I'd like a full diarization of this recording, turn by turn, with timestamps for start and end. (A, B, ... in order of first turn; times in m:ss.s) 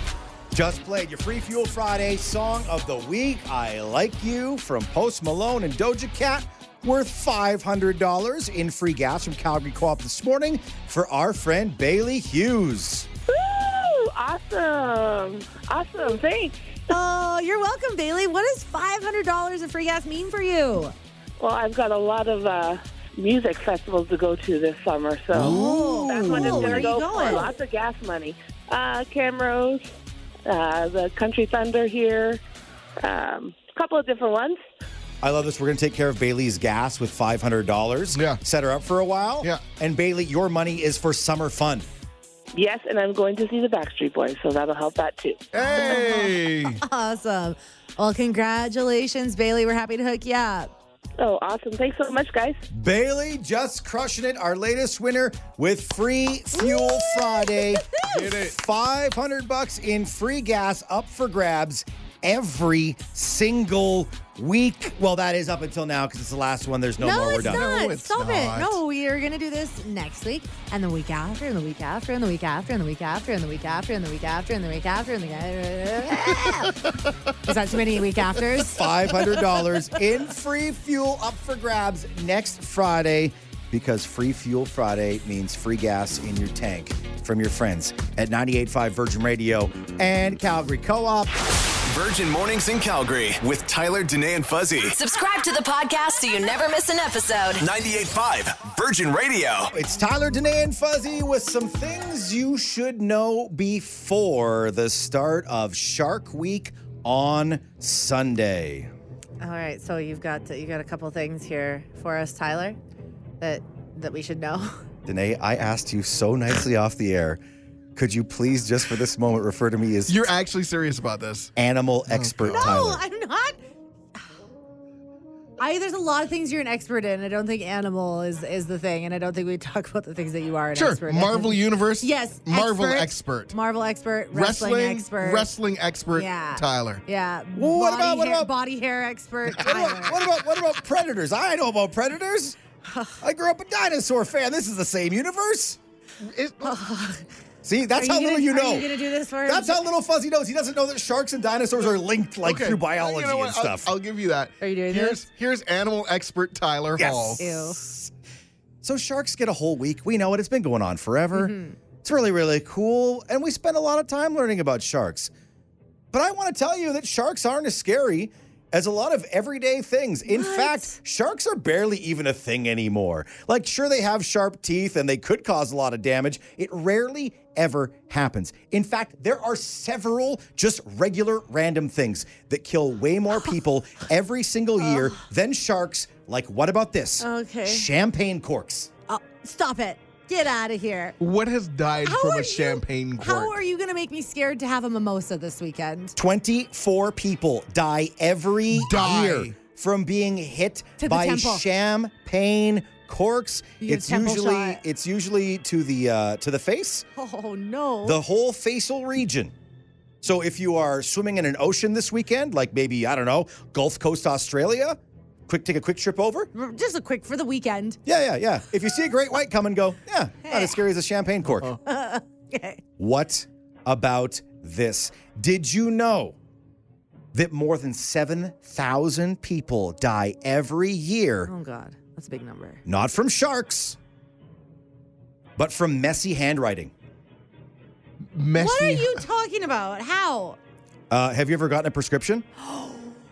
0:00.5-0:13.1 A
0:13.3-0:16.8 B
0:16.9-0:20.9 C
0:21.4-0:29.8 B
0:25.3-0:26.9 A
0:25.3-0:27.5 C
0:30.5-0:32.4 B
0:33.0-0:34.6 B
0:35.2-0:41.9 A
0:38.2-0:38.4 D
0:42.5-0:45.5 B
0:45.5-0:46.8 D
0:45.6-0:50.7 C
0:51.2-0:52.6 B
0:52.7-1:07.7 A
0:56.6-0:58.4 C
0:58.0-0:58.5 D
1:07.0-1:16.9 C
1:07.4-1:08.8 D
1:17.4-1:19.4 C
1:18.7-1:31.3 A
1:31.9-1:35.0 E
1:34.9-1:37.6 F
1:37.6-1:39.7 E
1:39.7-1:48.9 A
1:49.4-1:52.8 C
1:53.4-1:54.8 C
1:55.1-1:57.4 A
1:58.0-2:00.3 A
2:00.1-2:01.5 D
2:01.6-2:03.0 A
2:02.1-2:02.9 D
2:02.6-2:03.6 C
2:05.6-2:15.5 C
2:10.8-2:13.6 D
2:14.3-2:17.0 D
2:16.1-2:20.2 C
2:17.5-2:18.5 A
2:19.6-2:22.6 A
2:19.7-2:20.1 D
2:22.9-2:23.1 C
2:23.2-2:25.8 A
2:26.2-2:26.8 D
2:26.6-2:27.2 C
2:27.6-2:28.9 A
2:28.0-2:29.8 C
2:29.4-2:33.9 A
2:32.4-2:37.4 D
2:34.6-2:35.2 C
2:37.0-2:37.9 A
2:37.4-2:37.8 C
2:38.8-2:45.3 A
2:41.3-2:41.8 C
2:46.1-3:08.9 A
2:50.3-2:51.0 C
3:04.8-3:05.1 C
3:07.2-3:07.9 C
3:09.1-3:11.2 C
3:11.2-3:13.6 D
3:12.0-3:16.2 C
3:16.2-3:27.1 A
3:18.7-3:19.5 D
3:21.0-3:21.6 C
3:23.8-3:24.8 C
3:27.2-3:28.2 C
3:28.0-3:29.5 A
3:30.2-3:36.5 A
3:36.5-3:38.0 C
3:38.1-3:41.8 A
3:40.5-3:40.8 C
3:41.8-3:42.8 C
3:43.0-3:46.4 A
3:47.3-3:51.5 A
3:51.5-3:52.8 C
3:52.9-3:54.0 A
3:55.6-3:56.9 A
3:58.3-3:59.2 D
3:58.6-4:00.6 C
4:01.1-4:02.5 A
4:02.6-4:03.1 C